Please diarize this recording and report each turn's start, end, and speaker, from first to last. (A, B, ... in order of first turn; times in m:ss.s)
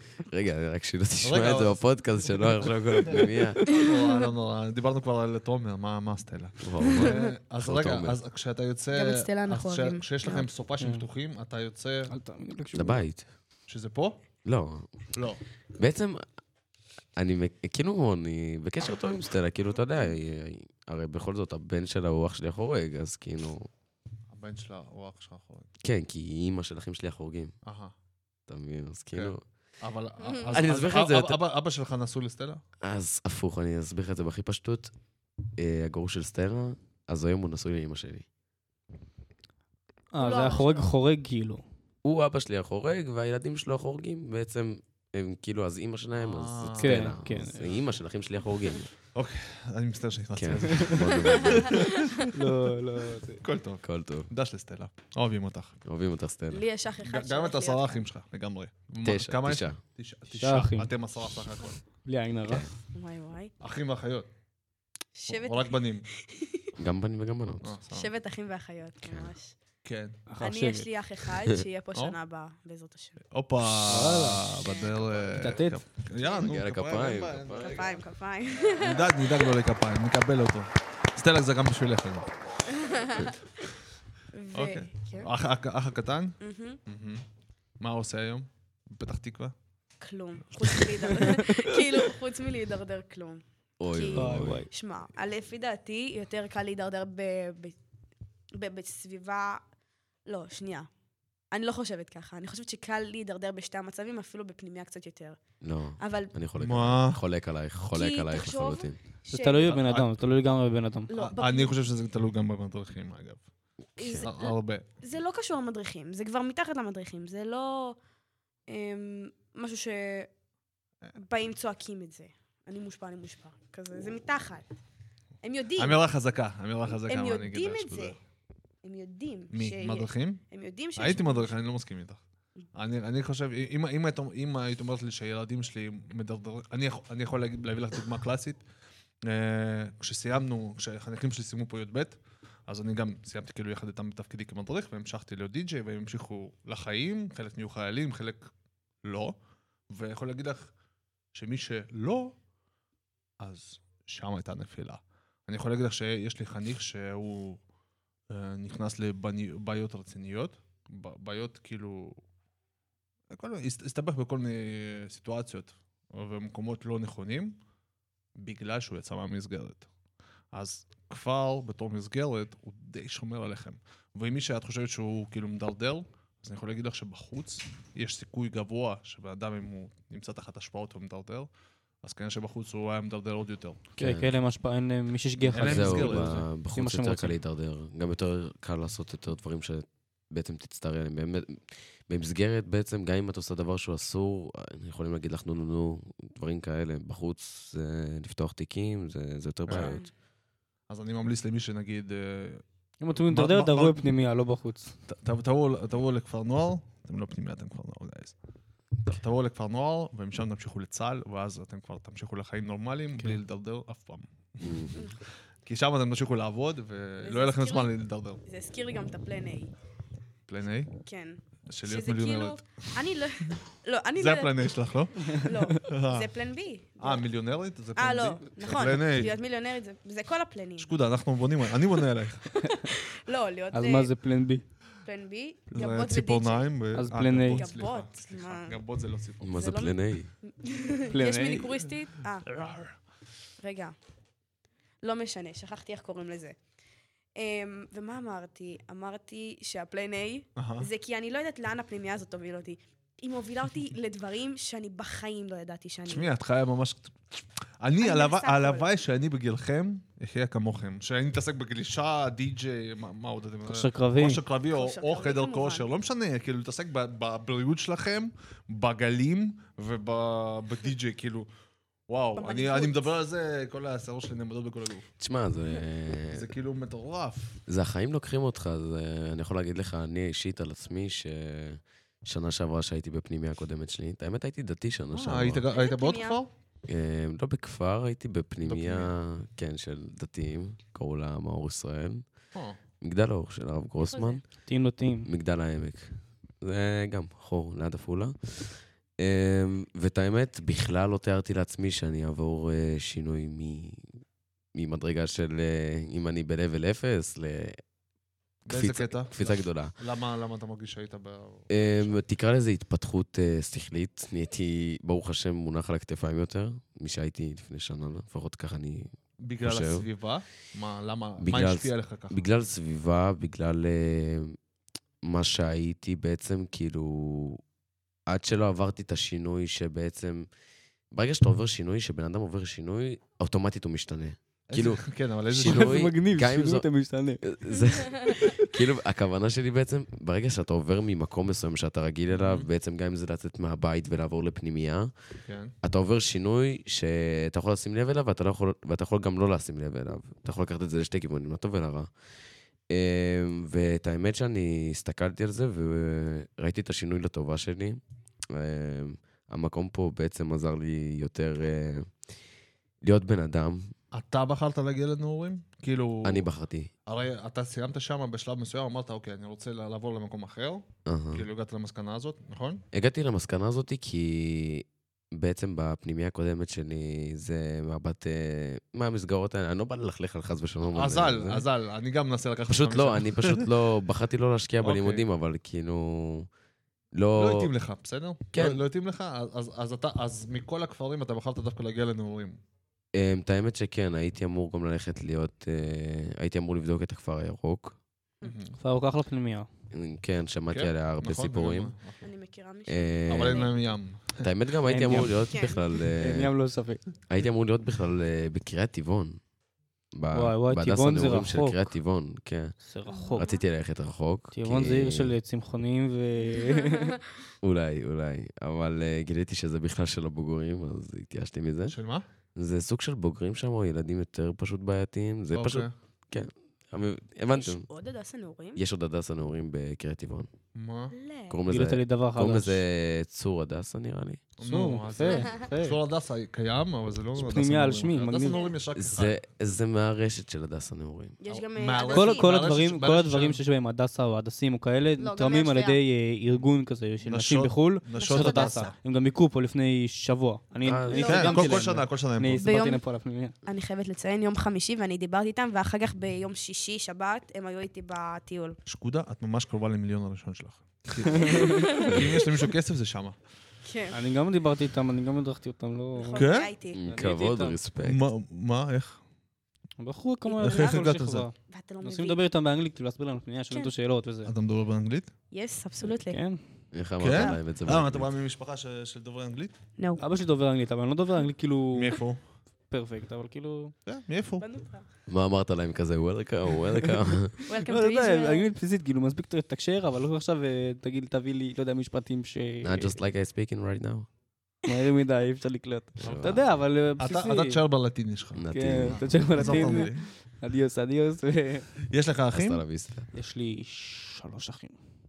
0:00.3-0:03.7 A
0:01.2-0:12.1 B
0:06.6-0:08.2 A
0:08.9-0:10.4 C
0:10.8-0:11.0 D
0:12.1-0:13.0 D
0:12.7-0:13.3 A
0:13.7-0:14.2 B
0:14.4-0:15.0 A
0:15.1-0:15.4 B
0:15.8-0:16.2 A
0:17.2-0:23.7 A
0:24.3-0:25.7 B
0:25.8-0:27.5 A
0:27.6-0:27.9 B
0:28.5-0:29.4 A
0:29.1-0:32.6 B
0:30.2-0:30.6 C
0:30.5-0:31.4 A
0:32.8-0:34.9 A
0:35.6-0:38.2 A
0:40.1-0:41.6 D
0:40.2-0:40.9 C
0:42.0-0:48.9 A
0:46.2-0:47.8 B
0:46.8-0:47.7 D
0:49.1-0:52.2 B
0:50.4-0:51.8 A
0:52.3-0:53.4 D
0:53.4-0:55.8 B
0:53.8-0:54.3 A
0:55.8-0:56.6 A
0:56.5-0:58.0 C
0:57.0-1:01.8 B
0:59.0-0:59.8 A
1:00.3-1:00.9 D
1:02.0-1:02.7 D
1:02.9-1:03.5 C
1:03.6-1:04.3 B
1:05.1-1:06.7 C
1:05.3-1:06.1 B
1:06.8-1:07.7 A
1:07.6-1:08.1 B
1:07.9-1:09.5 C
1:09.0-1:09.3 A
1:09.8-1:10.2 B
1:10.3-1:10.9 D
1:10.4-1:13.2 C
1:13.3-1:18.0 B
1:13.8-1:14.6 D
1:14.6-1:14.9 C
1:15.3-1:15.8 D
1:16.4-1:17.9 A
1:17.6-1:19.5 C
1:18.8-1:22.3 B
1:22.7-1:23.4 C
1:24.3-1:25.3 C
1:24.5-1:27.2 B
1:26.4-1:26.8 C
1:27.8-1:29.5 B
1:30.0-1:37.8 C
1:31.2-1:31.7 D
1:33.8-1:34.6 A
1:34.1-1:34.7 D
1:38.5-1:39.6 C
1:40.2-1:40.9 C
1:41.5-1:45.4 C
1:45.6-1:49.0 A
1:46.0-1:46.3 C
1:46.6-1:47.2 B
1:47.9-1:49.7 C
1:49.3-1:51.1 D
1:49.6-1:50.2 B
1:51.1-1:51.8 C
1:51.2-1:53.4 B
1:54.0-1:58.0 C
1:54.0-1:54.3 A
1:54.2-1:54.8 B
1:58.7-2:00.3 C
2:01.2-2:04.7 C
2:05.4-2:06.0 C
2:05.8-2:08.2 B
2:07.0-2:08.2 C
2:08.8-2:11.5 C
2:09.5-2:10.4 B
2:11.0-2:12.2 B
2:12.7-2:18.6 B
2:19.2-2:28.5 B
2:29.0-2:29.4 B
2:29.9-2:30.7 B
2:31.3-2:32.4 B
2:33.4-2:37.6 B
2:38.3-2:42.2 B
2:43.3-2:47.6 B
2:48.4-2:49.9 B
2:50.5-3:01.5 B
3:02.0-3:03.8 B
3:04.0-3:07.4 D
3:04.0-3:04.3 A
3:05.4-3:06.5 B
3:05.5-3:20.0 A
3:19.7-3:20.0 B
3:19.8-3:20.1 C
3:20.9-3:22.6 B
3:23.0-3:25.0 D
3:23.2-3:24.0 B
3:25.1-3:28.3 B
3:29.0-3:34.9 B
3:34.6-3:35.0 A
3:35.6-3:38.4 B
3:37.2-3:39.7 C
3:40.5-3:40.9 B
3:41.0-3:44.7 C
3:41.7-3:42.9 B
3:44.2-3:46.3 B
3:45.2-3:47.2 C
3:47.0-3:49.4 B
3:48.0-3:50.9 C
3:50.8-3:52.6 B
3:52.6-3:54.1 C
3:53.7-3:54.6 D
3:55.0-3:56.7 C
3:55.7-3:59.6 B
3:56.9-3:57.6 D
3:57.5-3:58.8 C
3:59.4-4:00.3 A
3:59.5-4:02.5 C
4:01.1-4:01.8 D
4:02.4-4:03.0 B
4:03.6-4:03.9 C
4:05.0-4:06.6 C
4:07.4-4:16.3 C
4:10.6-4:10.9 B
4:16.1-4:31.5 B
4:18.0-4:18.9 C
4:23.7-4:24.4 D
4:24.7-4:25.8 C
4:32.1-4:35.1 B
4:32.4-4:33.1 C
4:35.2-4:36.5 A
4:36.3-4:37.6 B
4:37.7-4:45.6 A
4:45.1-4:46.5 B
4:45.7-4:46.4 C
4:46.9-4:52.2 A
4:48.6-4:49.1 B
4:53.0-4:54.5 A
4:54.1-4:54.4 C
4:54.6-4:55.3 D
4:55.2-5:04.0 A
5:04.7-5:07.8 A
5:08.6-5:09.9 A
5:08.7-5:12.2 B
5:11.7-5:20.0 A
5:19.4-5:22.4 B
5:21.4-5:24.6 A
5:25.2-5:27.6 A
5:28.3-5:30.5 A
5:31.1-5:36.9 A
5:34.7-5:36.0 B
5:35.6-5:37.4 D
5:37.4-5:45.1 A
5:38.3-5:38.7 D
5:42.3-5:42.7 B
5:45.4-5:45.7 B
5:45.8-5:52.1 A
5:52.9-5:58.0 A
5:58.5-6:02.1 A
6:03.0-6:03.9 A
6:04.1-6:06.5 B
6:06.2-6:06.9 A
6:07.1-6:12.8 B
6:11.0-6:11.5 A
6:12.9-6:21.6 A
6:20.9-6:23.7 B
6:22.7-6:26.5 A
6:24.8-6:25.2 B
6:27.1-6:27.7 A
6:27.4-6:32.6 B
6:28.5-6:28.8 A
6:33.1-6:38.0 A
6:38.4-6:38.7 B
6:38.8-6:39.7 D
6:39.9-6:41.9 A
6:40.7-6:42.3 B
6:42.2-6:43.7 C
6:42.9-6:43.7 A
6:43.3-6:44.5 B
6:44.4-6:46.5 A
6:44.8-6:45.6 D
6:45.2-6:45.8 C
6:46.1-6:47.0 D
6:47.2-6:49.4 A
6:50.1-6:52.8 A
6:50.3-6:51.9 D
6:52.8-6:53.5 D
6:53.0-6:53.6 C
6:53.4-6:55.4 A
6:54.5-6:57.2 D
6:56.5-6:57.0 C
6:57.6-7:02.0 A
7:01.8-7:02.2 B
7:02.6-7:07.9 A
7:05.5-7:05.9 B
7:07.5-7:08.8 C
7:08.8-7:10.5 A
7:10.7-7:11.1 B
7:11.1-7:11.6 C
7:11.5-7:14.5 A
7:11.7-7:12.8 D
7:14.6-7:19.4 B
7:14.6-7:16.0 D
7:17.4-7:18.6 D
7:18.4-7:18.7 C
7:18.9-7:21.4 A
7:21.4-7:22.5 C
7:21.5-7:23.6 B
7:22.1-7:33.6 D
7:25.2-7:26.0 C
7:27.2-7:29.0 B
7:28.1-7:28.8 C
7:30.8-7:31.7 A
7:31.1-7:31.5 C
7:31.3-7:32.6 B
7:32.6-7:33.0 C
7:33.6-7:38.8 C
7:38.8-7:43.4 B
7:41.4-7:42.2 C
7:43.8-7:44.2 C
7:44.1-7:47.8 D
7:46.2-7:47.0 C
7:46.3-7:46.7 B
7:46.9-7:48.2 A
7:48.0-7:49.2 B
7:50.0-7:54.5 D
7:50.4-7:51.1 C
7:50.6-7:51.5 B
7:51.7-7:52.4 C
7:54.4-7:55.3 B
7:55.5-7:56.4 C
7:56.1-7:56.8 D
7:56.9-7:58.3 A
7:57.2-7:59.7 B
8:00.0-8:00.2 C
8:00.2-8:02.2 D
8:01.9-8:02.4 B
8:02.9-8:03.9 D
8:04.0-8:04.6 B
8:04.6-8:05.0 C
8:05.3-8:07.7 A
8:07.7-8:08.6 C
8:07.8-8:13.2 D
8:12.8-8:14.3 A
8:14.8-8:17.8 D
8:16.2-8:16.6 A
8:16.2-8:16.7 B
8:17.2-8:20.3 B
8:18.6-8:19.6 A
8:18.7-8:21.9 D
8:22.1-8:22.8 B
8:22.5-8:23.3 A
8:23.3-8:25.0 D